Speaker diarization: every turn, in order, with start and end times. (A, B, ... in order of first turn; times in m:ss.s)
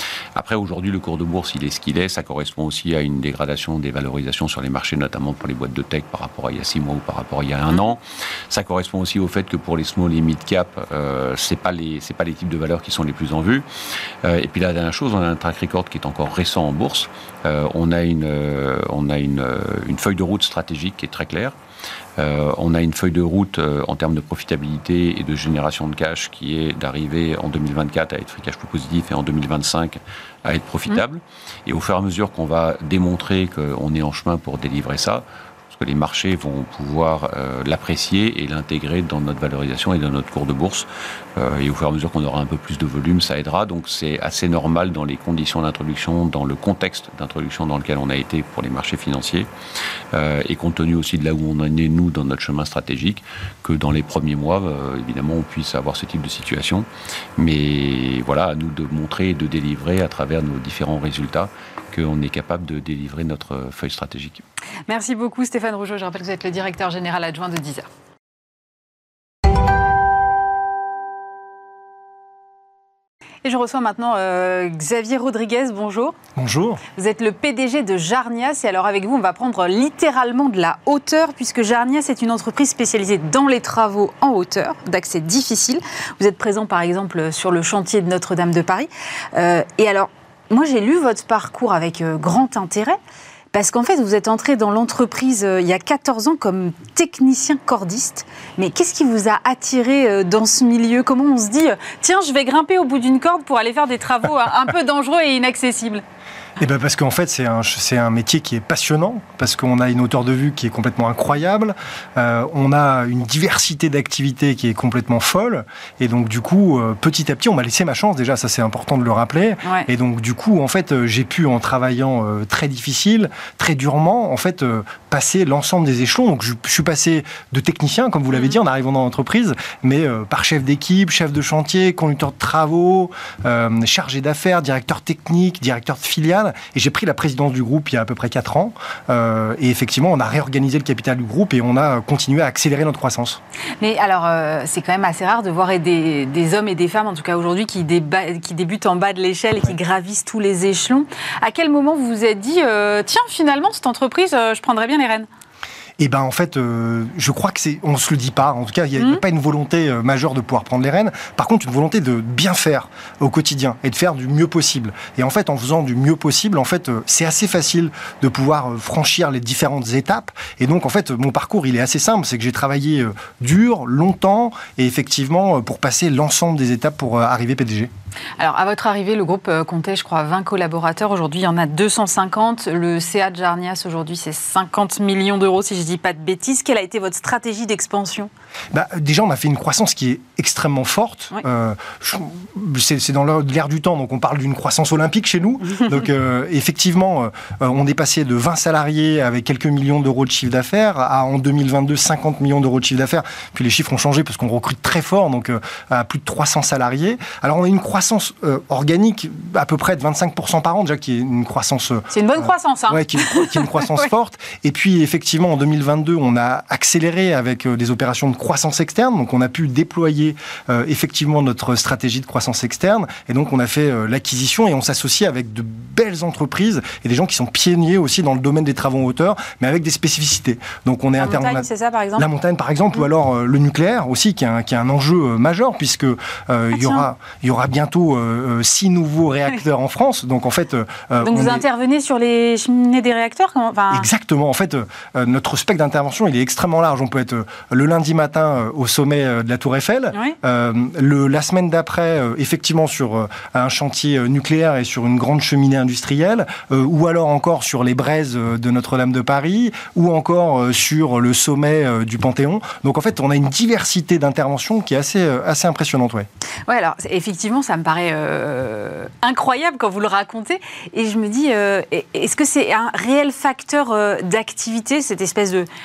0:00.4-0:13.7 A
0:14.2-0:21.6 A
0:22.2-0:49.5 A
0:50.1-1:04.4 A
1:04.9-1:07.9 B
1:13.4-1:16.2 B
1:16.4-1:16.8 C
1:17.0-1:33.0 B
1:33.5-1:46.0 B
1:46.6-2:23.4 C
1:59.6-1:59.9 B
2:08.3-2:08.6 B
2:23.8-2:35.3 B
2:36.0-2:57.9 C
2:39.0-2:39.2 B
2:58.4-3:08.3 B
3:08.7-4:01.6 C
3:32.1-3:34.0 B
3:51.2-3:52.2 B
3:56.8-3:57.1 B
4:01.2-4:04.1 B
4:03.9-4:26.3 C
4:26.7-4:35.7 B